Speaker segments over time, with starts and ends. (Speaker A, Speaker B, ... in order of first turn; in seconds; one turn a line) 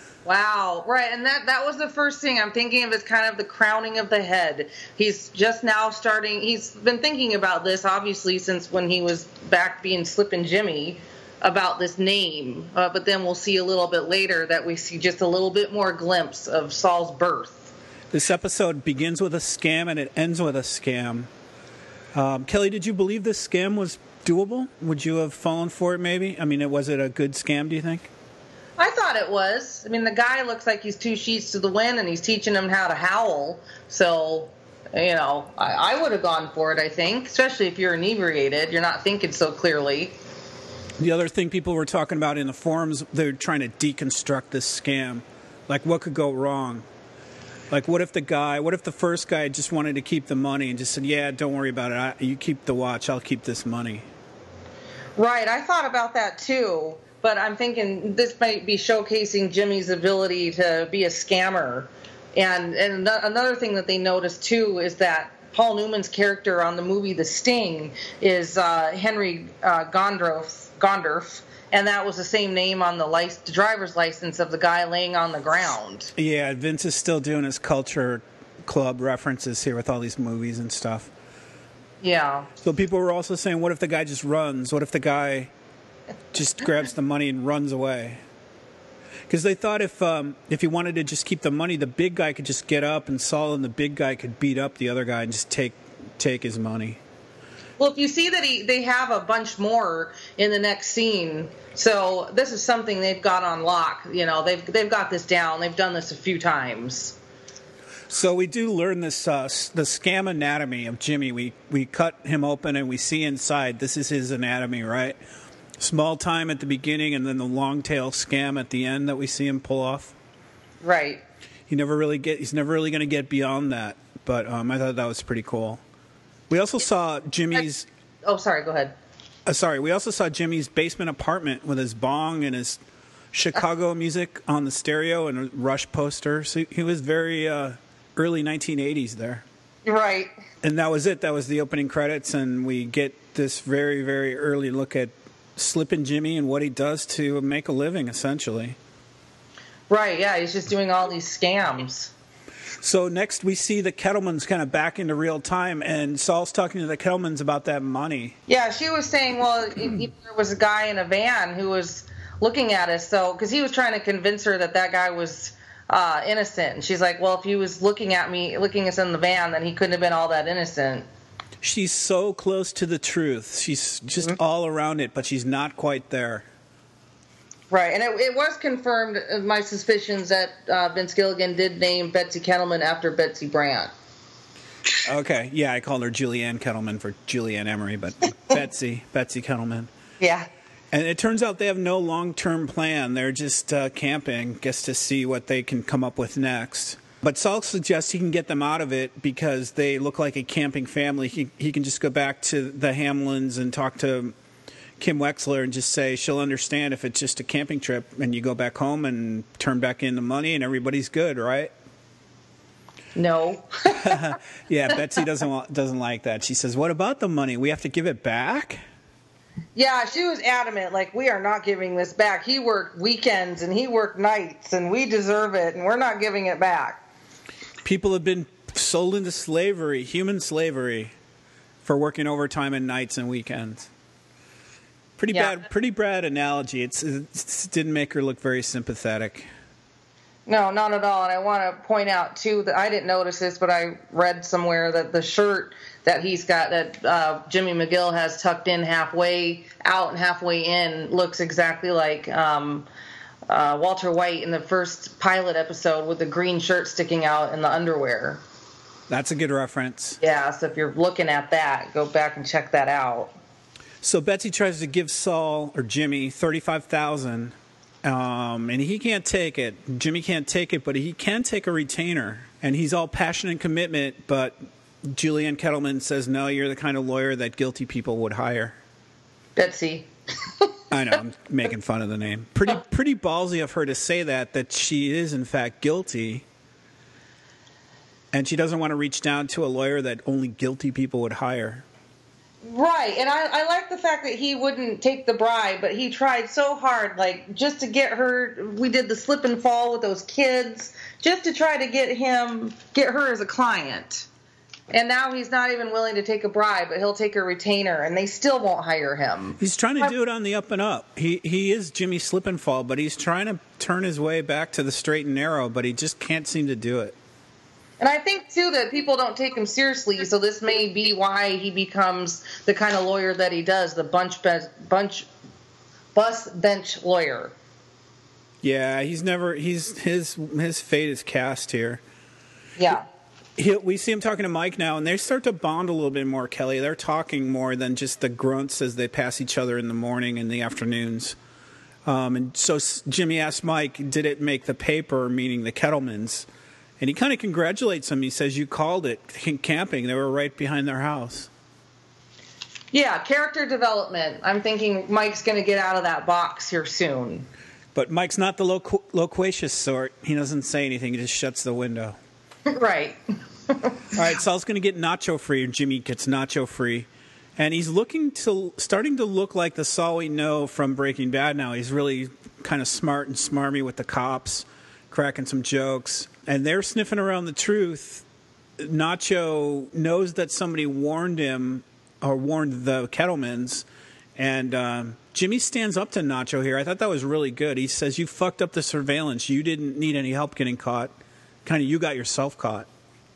Speaker A: 0.2-17.7
Speaker B: 18.1-21.3
Speaker B: 22.1-28.1
Speaker A: 28.8-40.1
Speaker B: 41.0-46.9
Speaker B: 47.7-54.1
Speaker A: 55.2-76.1
Speaker B: 76.2-81.1
Speaker A: 82.0-82.5
Speaker B: 82.6-85.5
Speaker B: 86.3-88.2
Speaker B: 89.3-97.0
Speaker A: 97.8-107.2
Speaker B: 108.1-115.2
Speaker B: 115.8-120.2
Speaker A: 120.8-121.2
Speaker B: 121.7-125.8
Speaker B: 126.5-127.9
Speaker A: 128.2-128.9
Speaker B: 129.5-132.8
Speaker B: 133.3-139.4
Speaker A: 139.8-140.3
Speaker B: 140.6-148.8
Speaker A: 149.9-152.1
Speaker B: 152.8-158.4
Speaker A: 158.5-171.1
Speaker B: 171.6-176.5
Speaker A: 177.7-183.9
Speaker B: 185.0-189.9
Speaker A: 190.2-190.5
Speaker B: 190.9-204.3
Speaker B: 205.0-211.7
Speaker A: 213.2-214.4
Speaker B: 213.9-218.8
Speaker A: 219.8-227.0
Speaker B: 227.8-231.1
Speaker B: 231.8-233.9
Speaker B: 235.2-239.5
Speaker A: 240.5-252.9
Speaker A: 253.5-258.4
Speaker B: 259.1-260.2
Speaker A: 260.2-263.4
Speaker B: 264.0-278.8
Speaker A: 279.6-280.1
Speaker B: 280.9-286.4
Speaker B: 288.3-291.9
Speaker A: 292.6-304.3
Speaker A: 304.9-309.6
Speaker B: 309.6-317.2
Speaker A: 318.0-325.3
Speaker A: 326.1-327.5
Speaker B: 328.6-332.0
Speaker A: 332.8-333.1
Speaker B: 333.6-341.4
Speaker B: 342.1-346.5
Speaker B: 347.0-351.5
Speaker A: 352.9-357.5
Speaker B: 357.9-362.2
Speaker A: 362.7-364.0
Speaker B: 364.1-378.2
Speaker B: 378.8-383.9
Speaker B: 384.4-392.9